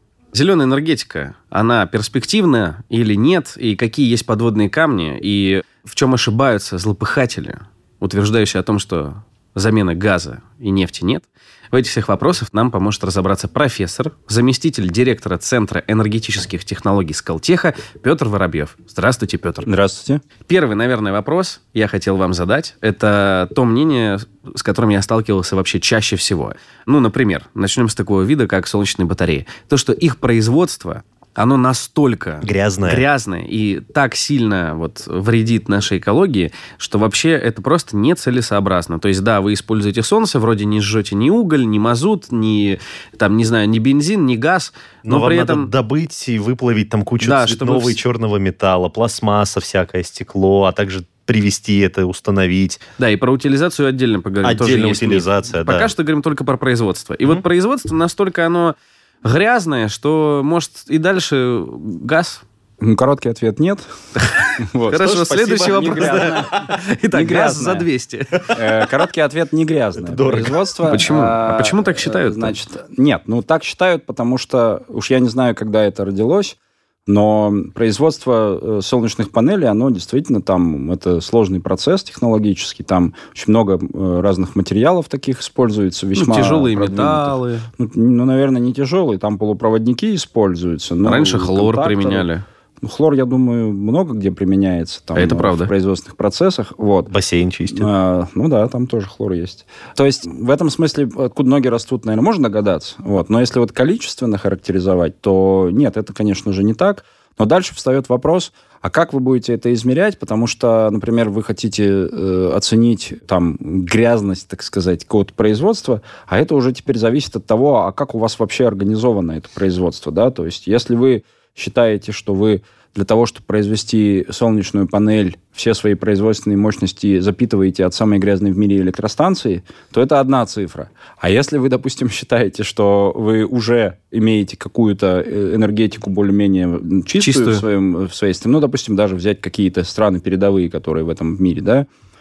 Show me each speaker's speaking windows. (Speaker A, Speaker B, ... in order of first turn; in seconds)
Speaker A: 0.3-19.7, 20.5-45.7, 47.2-48.0, 53.0-62.4, 64.2-68.6, 70.9-72.5, 86.2-87.7, 91.0-92.5, 95.2-95.7, 137.2-137.6
Speaker B: 19.6-20.2, 62.8-63.9, 64.6-66.5, 67.1-67.9, 68.5-76.6, 77.1-92.3, 92.8-97.1, 97.7-141.9
Speaker C: 32.4-33.0, 45.0-52.8, 54.4-55.9, 64.9-66.8, 70.0-71.1, 97.1-97.9